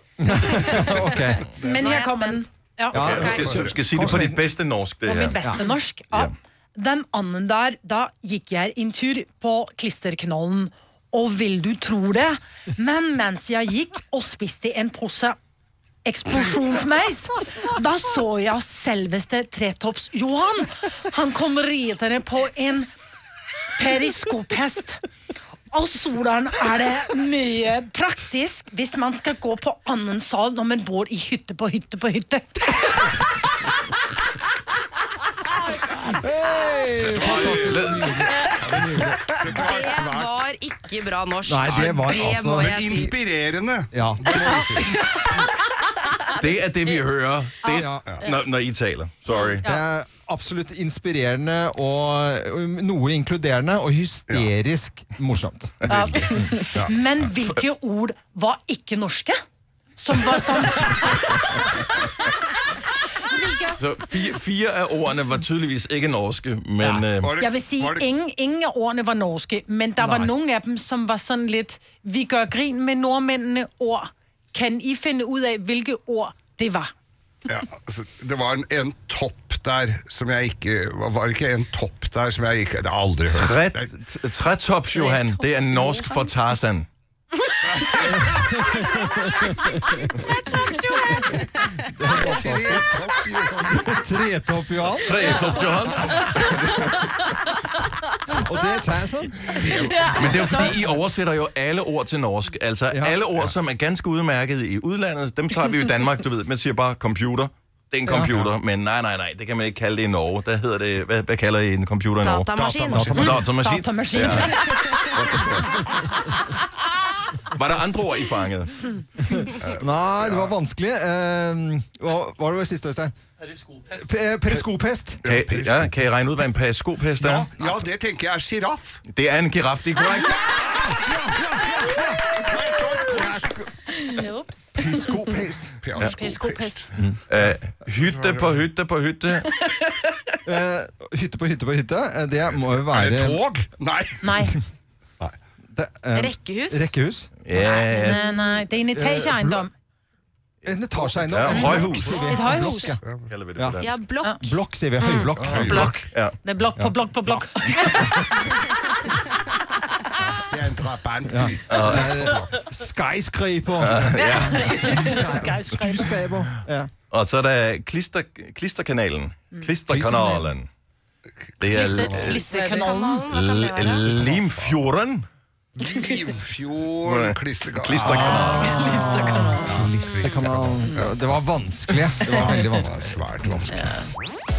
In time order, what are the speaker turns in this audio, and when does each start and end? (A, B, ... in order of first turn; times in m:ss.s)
0:00.2-0:01.5 A
0:00.5-0:00.8 B
0:01.5-0:03.1 B
0:01.8-0:02.4 C
0:02.9-0:04.4 A
0:02.9-0:05.6 D
0:03.0-0:03.8 E
0:05.0-0:15.4 B
0:16.0-0:22.9 B
0:23.7-0:25.0 B
0:25.7-0:33.2 B
0:35.9-0:39.2 A
0:37.1-0:38.9 D
0:37.2-0:37.9 E
0:38.7-0:40.5 E
0:39.5-0:41.9 C
0:39.7-0:43.1 F
0:41.4-0:43.1 A
0:41.7-0:42.2 D
0:42.5-0:45.3 E
0:43.9-0:44.5 A
0:46.2-0:49.6 D
0:47.7-0:48.1 A
0:48.0-0:48.3 E
0:49.6-0:56.4 A
0:55.9-0:59.4 B
1:00.0-1:01.4 B
1:03.2-1:03.8 B
1:03.8-1:07.4 D
1:07.1-1:08.1 E
1:07.4-1:16.9 B
1:10.0-1:10.3 A
1:17.4-1:23.9 E
1:23.3-1:26.9 D
1:27.6-1:28.6 E
1:28.4-1:29.9 A
1:31.4-1:33.0 A
1:32.1-1:33.9 E
1:33.7-1:35.4 A
1:35.0-1:36.9 D
1:38.3-1:39.9 A
1:39.6-1:52.5 D
1:39.7-1:40.8 C
1:42.9-1:43.3 A
1:48.0-1:48.5 A
1:52.2-1:53.3 C
1:52.5-1:53.4 E
1:52.6-1:52.9 F
1:52.9-1:53.4 A
1:53.1-1:55.6 D
1:53.5-1:55.4 B
1:57.5-1:58.9 D
1:59.3-2:03.1 A
1:59.5-2:00.5 E
2:03.7-2:05.2 A
2:05.2-2:06.0 E
2:05.2-2:07.5 D
2:07.2-2:09.0 E
2:09.1-2:10.6 D
2:11.7-2:12.0 A
2:12.4-2:13.7 E
2:14.2-2:14.6 C
2:14.7-2:15.8 A
2:15.8-2:17.0 E
2:16.0-2:16.3 D
2:16.4-2:16.7 C
2:17.3-2:19.5 D
2:17.9-2:18.7 E
2:20.4-2:23.4 A
2:22.9-2:24.5 E
2:24.2-2:24.6 B
2:25.7-2:27.3 A
2:26.2-2:26.8 F
2:26.3-2:26.6 C
2:27.4-2:28.2 D
2:27.5-2:28.3 C
2:27.7-2:29.7 B
2:28.9-2:29.6 A
2:30.6-2:33.0 A
2:31.0-2:32.2 D
2:31.4-2:33.0 B
2:31.7-2:33.3 E
2:33.3-2:34.0 D
2:33.6-2:33.8 A
2:33.8-2:34.3 F
2:34.2-2:34.5 B
2:34.3-2:36.0 A
2:35.0-2:35.3 C
2:35.3-2:36.1 E
2:35.8-2:36.4 D
2:36.4-2:38.8 B
2:40.4-2:42.4 E
2:41.2-2:46.9 A
2:41.7-2:42.4 D
2:43.8-2:45.0 D
2:44.2-2:46.2 B
2:47.1-2:50.7 D
2:49.9-2:50.5 A
2:51.6-2:52.5 D
2:51.7-2:53.2 B
2:51.8-2:52.0 E
2:52.3-2:54.1 C
2:52.9-2:53.9 F
2:53.2-2:55.3 D
2:54.2-2:54.8 E
2:55.7-3:01.1 E
2:57.0-2:59.2 D
2:58.2-3:03.8 A
2:59.0-2:59.4 C
3:02.2-3:03.9 E